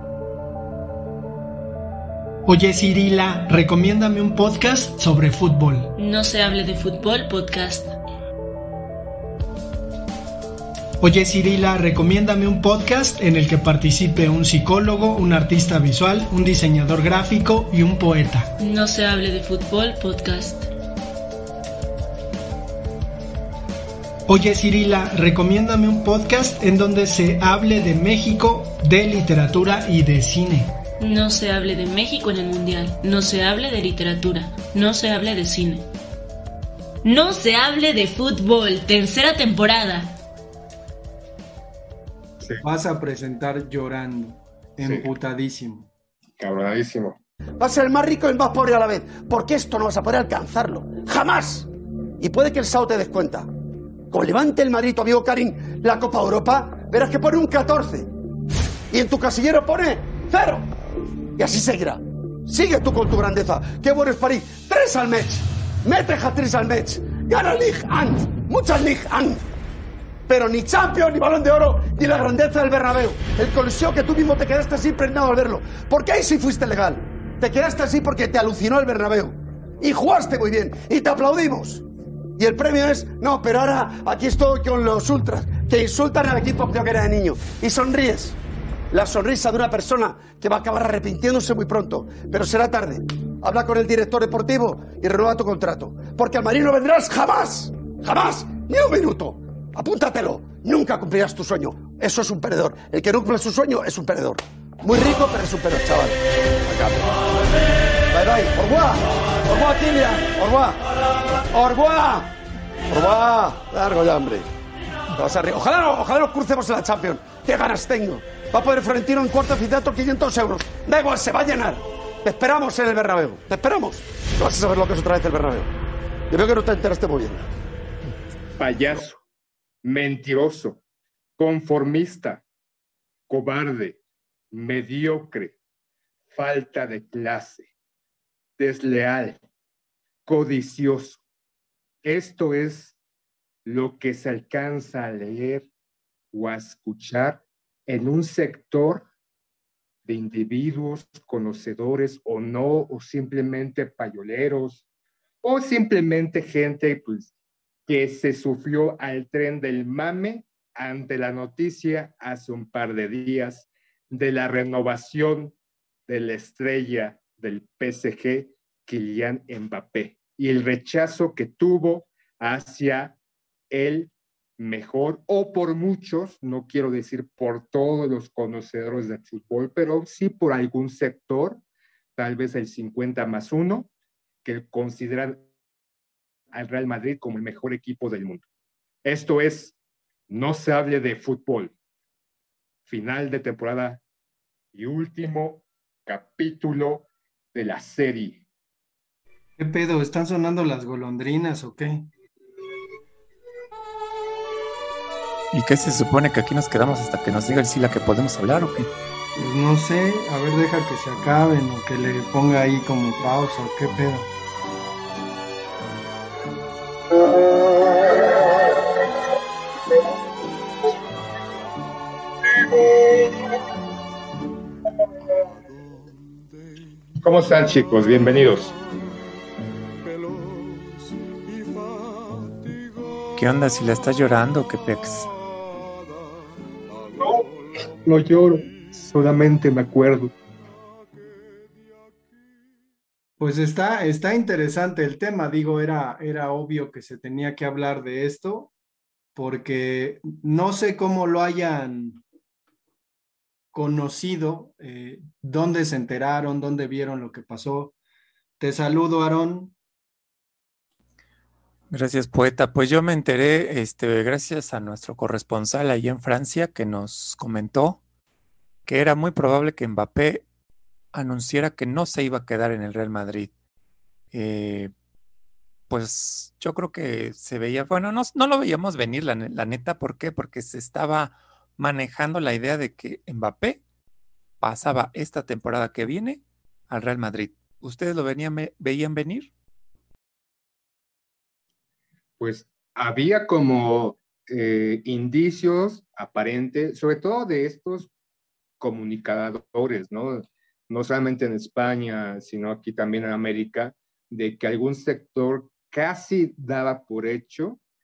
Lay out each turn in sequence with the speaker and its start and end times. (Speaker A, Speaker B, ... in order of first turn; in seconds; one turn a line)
Speaker A: 2.5-5.9
Speaker B: 6.0-8.0
Speaker A: 11.0-18.5
Speaker B: 18.6-20.7
Speaker A: 24.3-30.7
Speaker B: 31.0-35.9
Speaker B: 37.0-40.1
Speaker A: 42.6-45.9
Speaker C: 44.8-45.1
Speaker C: 46.4-47.2
Speaker D: 47.6-53.5
Speaker D: 54.1-58.1
Speaker D: 58.9-60.7
Speaker D: 61.4-69.4
Speaker D: 70.3-81.8
Speaker D: 82.4-88.4
Speaker D: 88.9-107.3
Speaker D: 108.1-110.9
Speaker D: 111.5-112.3
Speaker D: 112.9-114.5
Speaker D: 115.1-125.7
Speaker D: 126.3-127.5
Speaker C: 128.6-129.2
Speaker C: 129.8-130.8
Speaker C: 131.4-132.4
Speaker C: 133.3-134.0
Speaker C: 134.5-135.6
Speaker C: 136.3-137.7
Speaker C: 138.6-139.4
Speaker C: 140.2-141.2
Speaker C: 142.0-142.9
Speaker C: 143.6-145.7
Speaker C: 146.3-149.1
Speaker C: 150.0-154.8
Speaker C: 155.4-157.3
Speaker C: 157.9-165.6
Speaker C: 166.1-173.2
Speaker C: 173.7-181.6
Speaker C: 182.2-183.9
Speaker C: 184.4-185.4
Speaker C: 186.5-188.4
Speaker C: 189.0-189.8
Speaker C: 190.3-191.7
Speaker C: 192.9-194.0
Speaker C: 194.7-198.4
Speaker A: 199.6-202.1
Speaker E: 205.5-208.9
Speaker A: 209.4-214.3
Speaker C: 222.6-223.3
Speaker C: 227.2-228.8
Speaker E: 233.3-235.3
Speaker C: 237.1-240.3
Speaker A: 243.4-248.7
Speaker A: 249.3-252.2
Speaker A: 253.7-257.9
Speaker A: 258.6-259.7
Speaker E: 261.9-268.0
Speaker E: 268.9-270.4
Speaker E: 271.1-273.5
Speaker E: 274.3-274.9
Speaker E: 275.9-283.8
Speaker E: 284.6-289.5
Speaker C: 292.4-298.1
Speaker C: 298.8-307.8